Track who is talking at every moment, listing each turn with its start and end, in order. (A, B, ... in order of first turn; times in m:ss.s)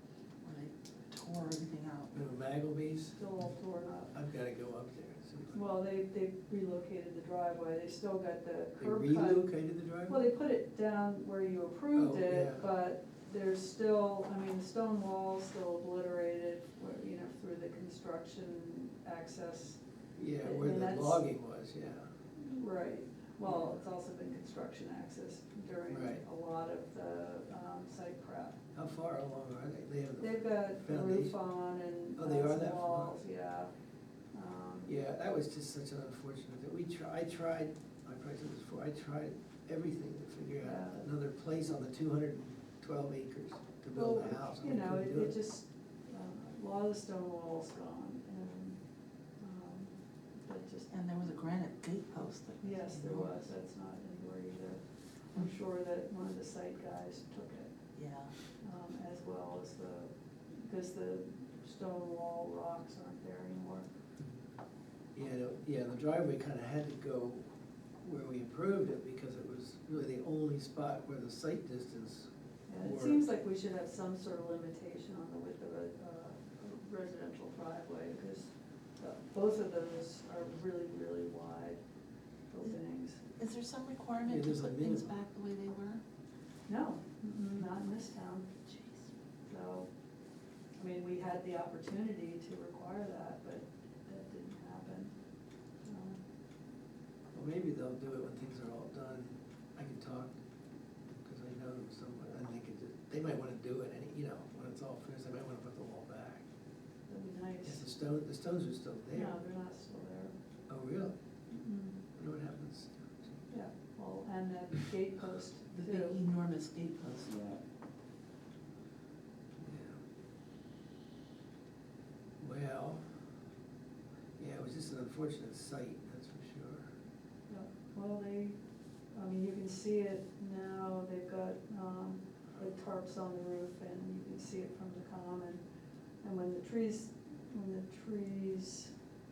0:00.4-0:02.1 A
0:02.1-0:03.2 B
0:03.2-0:04.1 C
0:04.1-0:05.7 B
0:05.5-0:09.5 C
0:08.8-0:10.2 B
0:10.1-0:19.8 C
0:12.0-0:12.7 B
0:20.2-0:22.1 B
0:20.4-0:21.3 C
0:22.4-0:28.6 C
0:25.9-0:26.2 B
0:28.7-0:31.4 B
0:30.2-0:33.7 C
0:32.2-0:33.2 B
0:34.3-0:34.9 C
0:34.9-0:45.4 B
0:40.6-0:41.1 C
0:43.9-0:48.8 C
0:49.4-0:50.9 C
0:50.9-0:53.4 A
0:52.6-0:57.8 C
0:58.0-0:58.3 A
0:58.5-1:03.9 C
1:05.2-1:07.5 B
1:08.0-1:12.3 B
1:12.7-1:21.8 C
1:12.8-1:13.2 B
1:22.5-1:23.2 C
1:23.4-1:26.0 A
1:24.2-1:25.1 B
1:26.7-1:28.5 C
1:28.7-1:29.1 A
1:29.5-1:29.9 C
1:30.8-1:35.1 C
1:35.8-1:36.2 C
1:37.3-1:40.3 B
1:41.2-1:46.4 B
1:47.1-1:47.8 C
1:47.6-1:49.4 B
1:49.1-1:50.3 C
1:50.7-1:51.2 B
1:51.5-1:52.0 C
1:52.1-1:53.4 B
1:53.5-1:56.2 C
1:55.7-1:57.4 A
1:57.3-1:57.6 C
1:59.6-2:00.0 B
2:02.4-2:03.0 B
2:04.4-2:06.9 B
2:07.5-2:08.6 C
2:09.1-2:15.6 C
2:16.2-2:18.9 C